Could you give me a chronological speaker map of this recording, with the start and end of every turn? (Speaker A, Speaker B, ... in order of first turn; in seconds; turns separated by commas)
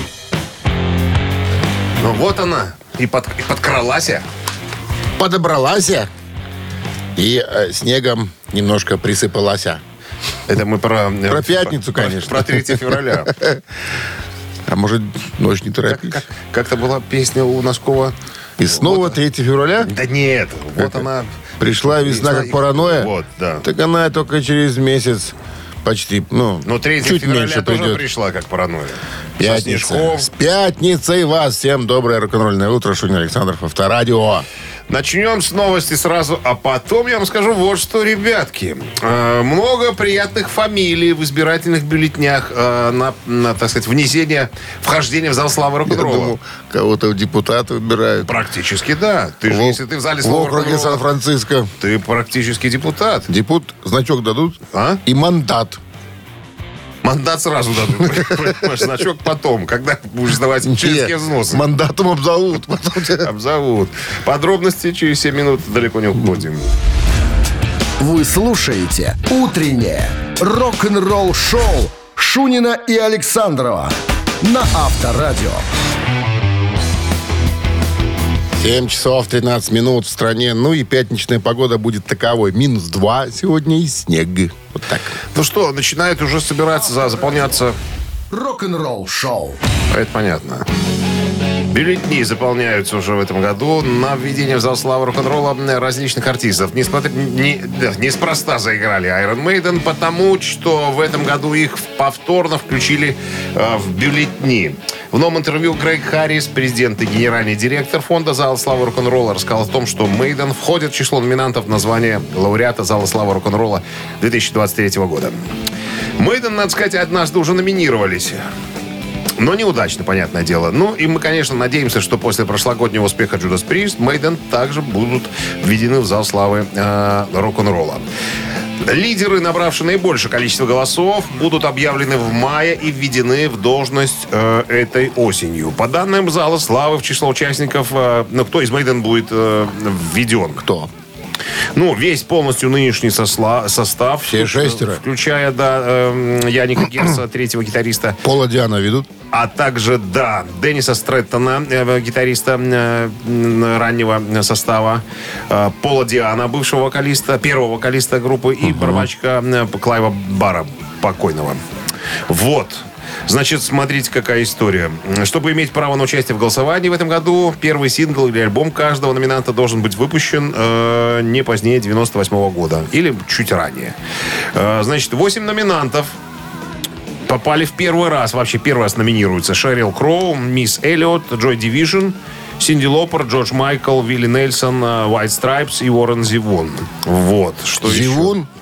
Speaker A: 2.0-4.2, Speaker B: 5.2-6.1, Speaker B: 7.2-9.8, Speaker A: 10.5-13.3, Speaker B: 11.3-13.6, Speaker B: 14.7-16.2, Speaker A: 15.9-18.1, Speaker B: 18.6-19.9, Speaker A: 18.7-19.2, Speaker A: 19.8-23.6, Speaker B: 20.8-21.1, Speaker B: 21.6-23.1, Speaker B: 23.6-28.0, Speaker A: 26.6-30.3, Speaker B: 29.4-34.5, Speaker A: 34.9-46.3, Speaker B: 45.9-48.4, Speaker A: 48.2-51.0, Speaker B: 49.5-51.7, Speaker A: 51.8-53.3, Speaker B: 53.3-55.8, Speaker A: 54.7-55.0, Speaker A: 57.0-61.6, Speaker B: 58.0-58.5, Speaker B: 60.6-63.3, Speaker A: 63.2-66.7, Speaker C: 68.0-75.6, Speaker B: 78.5-85.2, Speaker A: 85.3-87.8, Speaker C: 87.0-87.3, Speaker C: 88.3-89.6, Speaker A: 89.9-90.7, Speaker A: 91.7-115.5, Speaker A: 116.2-118.4, Speaker A: 119.4-128.1, Speaker A: 128.8-140.6, Speaker B: 140.6-140.9, Speaker A: 141.7-148.2, Speaker B: 144.2-145.0, Speaker B: 148.2-149.1, Speaker A: 149.3-161.6, Speaker B: 158.6-159.1, Speaker A: 162.3-174.0, Speaker A: 174.5-176.2, Speaker A: 177.3-188.3, Speaker B: 187.8-188.5